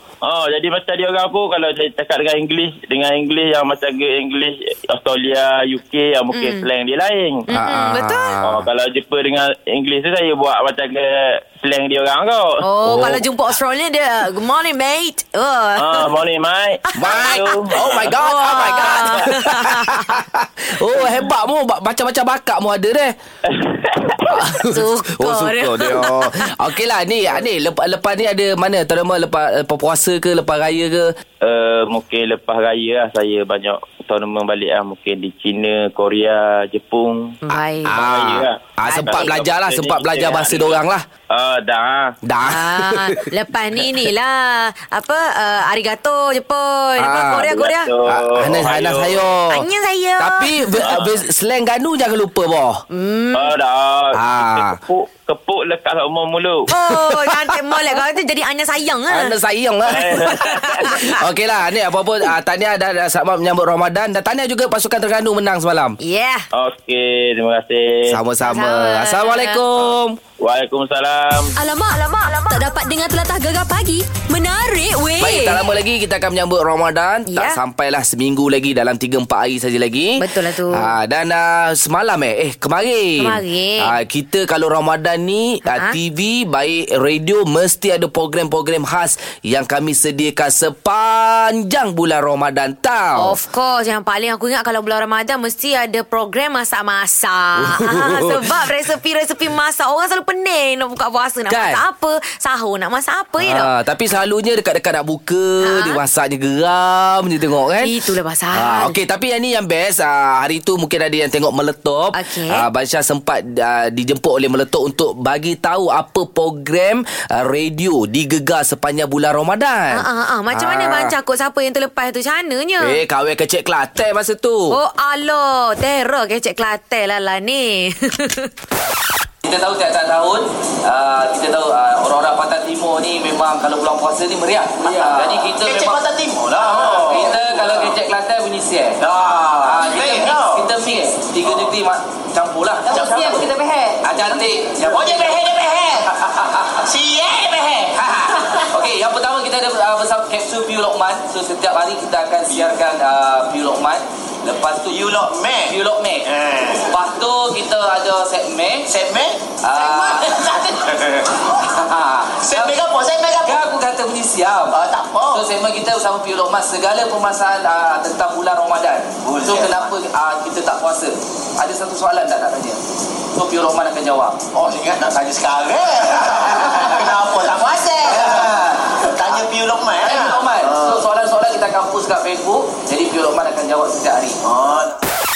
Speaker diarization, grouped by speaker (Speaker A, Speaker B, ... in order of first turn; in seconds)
Speaker A: 0.2-7.4, 8.4-12.6, 15.8-19.2, 23.4-24.4, 31.4-37.4, 37.9-42.1, 47.4-49.2, 50.8-51.2, 53.3-56.7, 59.9-61.0, 66.5-68.2, 70.4-71.5
Speaker B: 6.3-6.6, 7.5-8.4, 12.6-16.1, 16.9-20.2, 24.6-26.6, 37.5-38.0, 38.8-39.3, 42.4-47.9, 49.5-50.9, 52.9-53.5, 56.7-59.4, 60.1-61.2, 66.0-66.5, 68.4-69.6, 77.3-77.6, 80.2-80.9, 83.2-83.9, 85.7-86.0, 93.2-103.7, 105.6-106.0, 107.8-109.0, 112.1-112.7, 119.9-123.0, 124.7-128.5
Speaker C: 7.5-8.7, 12.8-13.2, 17.0-23.1, 24.2-31.1, 37.8-41.0, 42.2-43.2, 47.0-47.5, 48.0-49.7, 50.2-52.8, 54.1-54.8, 56.9-58.0, 59.1-66.0, 68.1-70.2, 75.2-93.3, 97.5-98.7, 101.5-101.8, 103.4-107.9, 108.5-121.1, 122.8-124.8, 129.4-136.0, 136.6-139.0, 139.6-146.9, 147.6-155.1, 155.7-158.9, 159.6-160.9, 161.6-162.8, 163.4-164.8, 165.3-174.4, 176.3-176.9, 178.0-179.4, 180.0-184.4
Speaker D: 71.5-75.6
Speaker E: 134.8-137.9, 139.0-140.8, 142.9-143.5, 144.3-146.2, 146.7-147.8, 154.8-156.9, 158.9-161.4, 162.4-163.6, 164.7-165.5, 169.2-169.9, 174.5-181.0, 184.4-185.0